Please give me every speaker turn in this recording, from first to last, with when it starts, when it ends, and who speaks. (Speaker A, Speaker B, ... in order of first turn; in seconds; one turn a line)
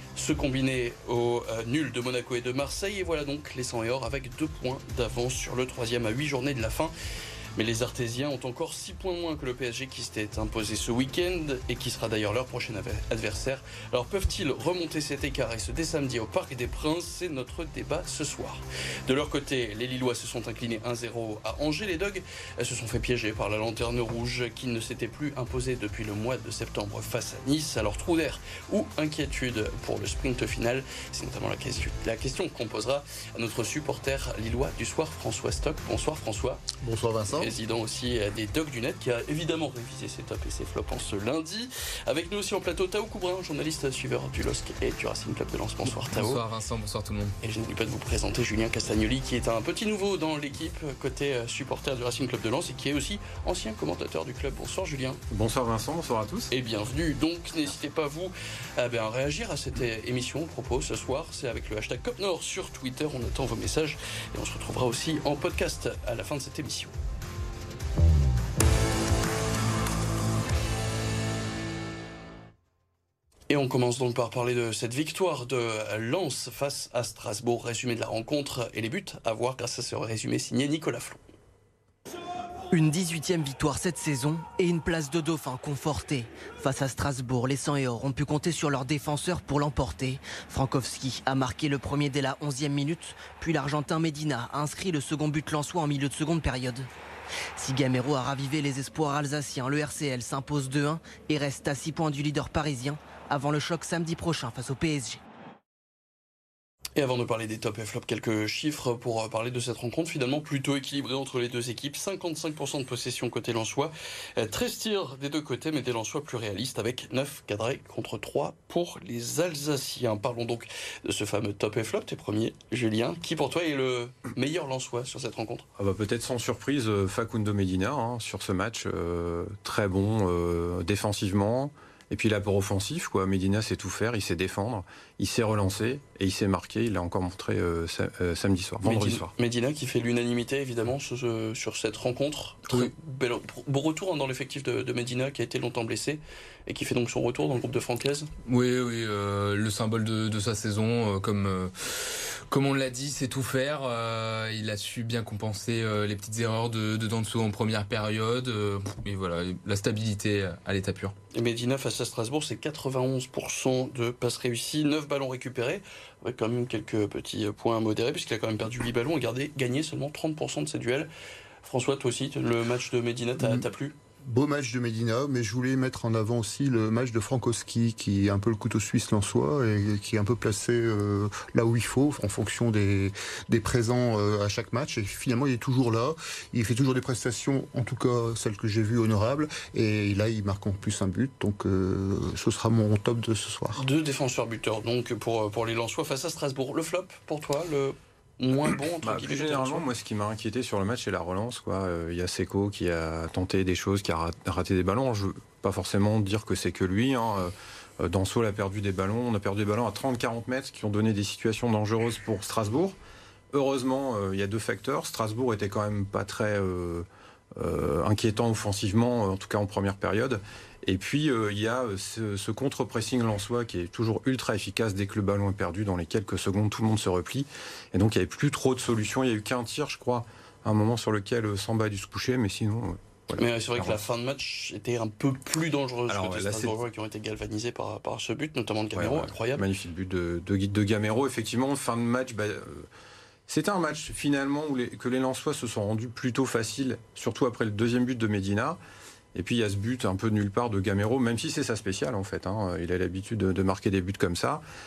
Speaker A: 0.2-6.9
Speaker A: 7.5-36.6
Speaker B: 36.8-37.5
Speaker A: 37.3-46.4
Speaker C: 46.1-47.4
Speaker A: 47.4-55.2
Speaker D: 55.3-56.5
Speaker A: 56.5-66.9
Speaker A: 73.5-81.2
Speaker E: 82.7-96.9
Speaker E: 97.6-105.2
Speaker A: 107.0-125.7
Speaker D: 125.8-139.3
Speaker A: 138.8-148.3
Speaker C: 148.4-161.1
Speaker A: 161.3-171.1
Speaker A: 171.6-173.9
Speaker B: 173.4-173.7
Speaker B: 174.2-193.8
Speaker A: 193.8-199.8
Speaker D: 199.0-212.9
Speaker D: 213.5-234.0
Speaker A: 233.3-239.7
Speaker D: 236.1-236.8
Speaker D: 238.9-242.9
Speaker D: 243.5-248.8
Speaker D: 249.3-254.6